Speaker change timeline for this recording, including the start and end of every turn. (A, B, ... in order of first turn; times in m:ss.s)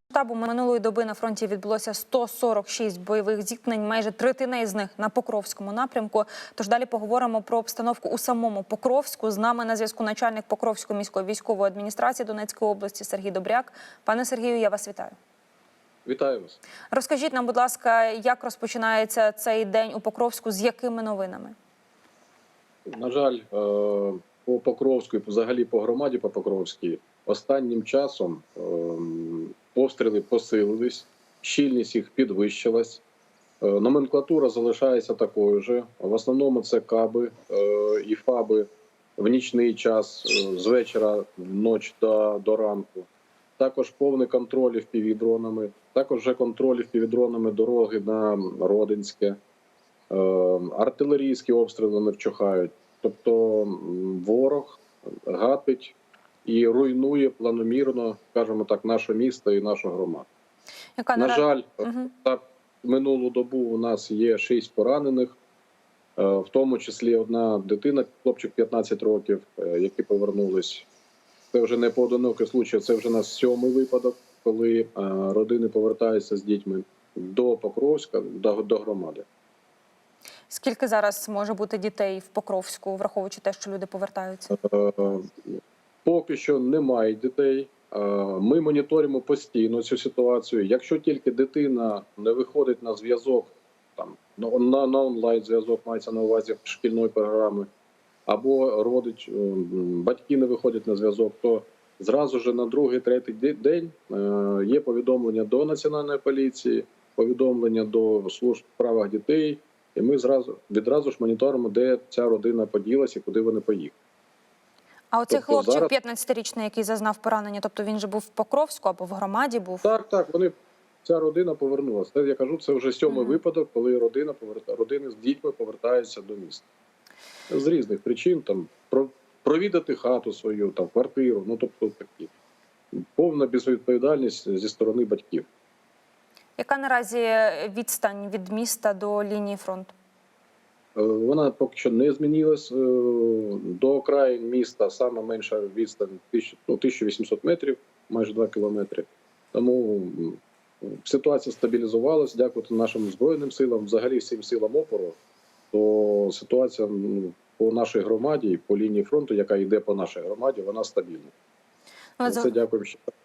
0:00.1-0:15.2 A
0:16.0-0:16.6 B
0:16.9-0:21.6 A
0:22.9-0:33.0 B
0:33.6-0:43.1 B
0:43.6-0:49.4 B
0:50.1-1:00.3 B
1:01.0-1:02.1 A
1:01.2-1:05.4 B
1:06.2-1:10.9 B
1:11.5-1:19.3 B
1:20.5-1:24.5 A
1:24.5-1:37.7 B
1:38.3-1:53.9 B
1:55.1-1:59.9 A
1:55.3-1:55.9 B
1:59.8-2:06.7 B
2:03.1-2:03.4 A
2:07.5-2:12.3 B
2:12.9-2:15.5 B
2:16.6-2:19.9 A
2:21.0-2:35.2 B
2:35.7-2:41.3 B
2:42.2-2:42.5 A
2:42.2-2:43.1 B